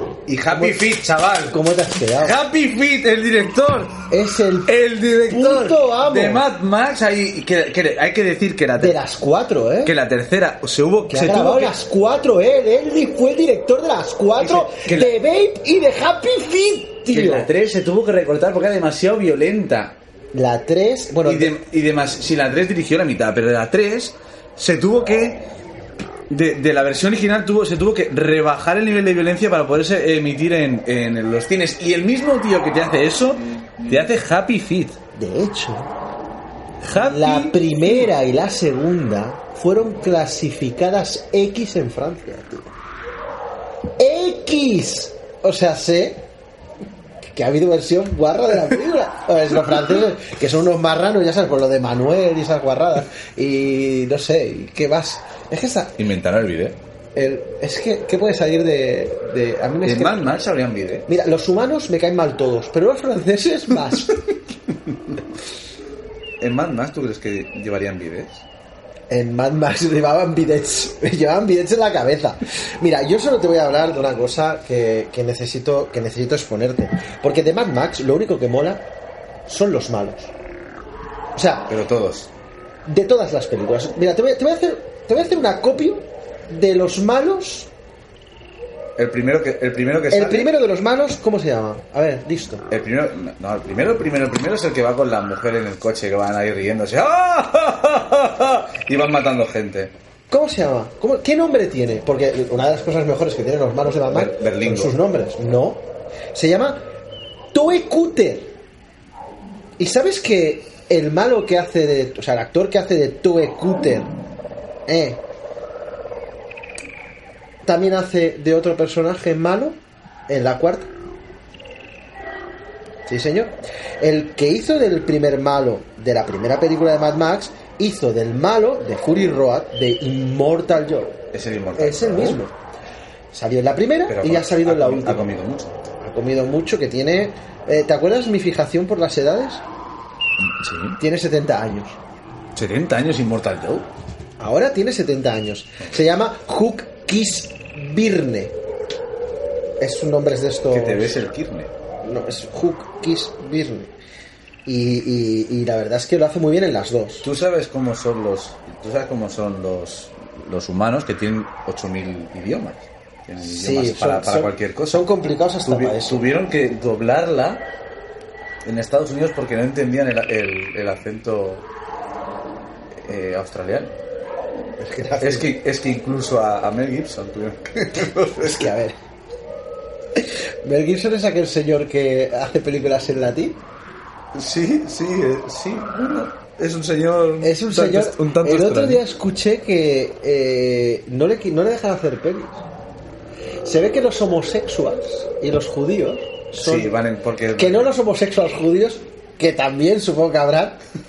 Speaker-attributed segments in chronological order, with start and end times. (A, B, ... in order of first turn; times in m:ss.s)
0:00.3-0:01.6 A
0:00.5-0:00.9 B
0:01.5-0:02.4 B
0:02.2-0:04.0 A
0:04.1-0:04.8 B
0:04.7-0:09.0 A
0:05.3-0:06.4 B
0:08.8-0:09.9 B
0:09.8-0:11.8 A
0:11.1-0:17.5 B
0:14.4-0:15.2 A
0:17.1-0:20.0 A
0:20.3-0:21.6 B
0:21.2-0:25.4 A
0:26.3-0:35.0 A
0:35.2-0:35.9 B
0:36.8-0:38.1 A
0:37.0-0:42.7 B
0:44.0-0:46.2 B
0:47.4-0:56.0 B
0:56.0-0:56.8 A
0:57.2-1:00.3 B
0:59.8-1:01.1 A
1:01.1-1:04.1 B
1:06.4-1:08.4 A
1:09.1-1:18.8 B
1:19.5-1:20.3 B
1:21.4-1:21.7 B
1:21.7-1:22.3 A
1:22.9-1:27.7 B
1:29.0-1:30.5 A
1:30.1-1:32.6 B
1:32.7-1:39.9 A
1:40.3-1:46.8 B
1:44.1-1:45.0 A
1:47.5-1:48.6 B
1:49.8-1:54.1 B
1:54.9-1:55.2 B
1:57.6-2:00.9 B
2:03.1-2:11.2 B
2:11.3-2:12.4 A
2:11.8-2:12.6 B
2:13.3-2:15.3 B
2:14.1-2:15.8 A
2:16.0-2:19.6 B
2:20.4-2:21.0 A
2:21.0-2:22.0 B
2:22.6-2:23.9 A
2:24.4-2:28.6 B
2:29.8-2:31.2 B
2:30.7-2:31.7 A
2:32.0-2:33.9 B
2:34.7-2:37.3 B
2:37.2-2:45.1 A
2:43.4-2:46.3 B
2:45.6-2:47.7 A
2:48.6-2:51.7 A
2:52.9-2:54.0 A
2:54.8-2:55.5 B
2:55.2-2:58.7 A
2:58.4-2:59.0 B
3:00.2-3:03.6 B
3:04.3-3:09.0 A
3:07.4-3:12.6 B
3:13.6-3:16.9 B
3:16.6-3:17.9 A
3:17.6-3:20.8 B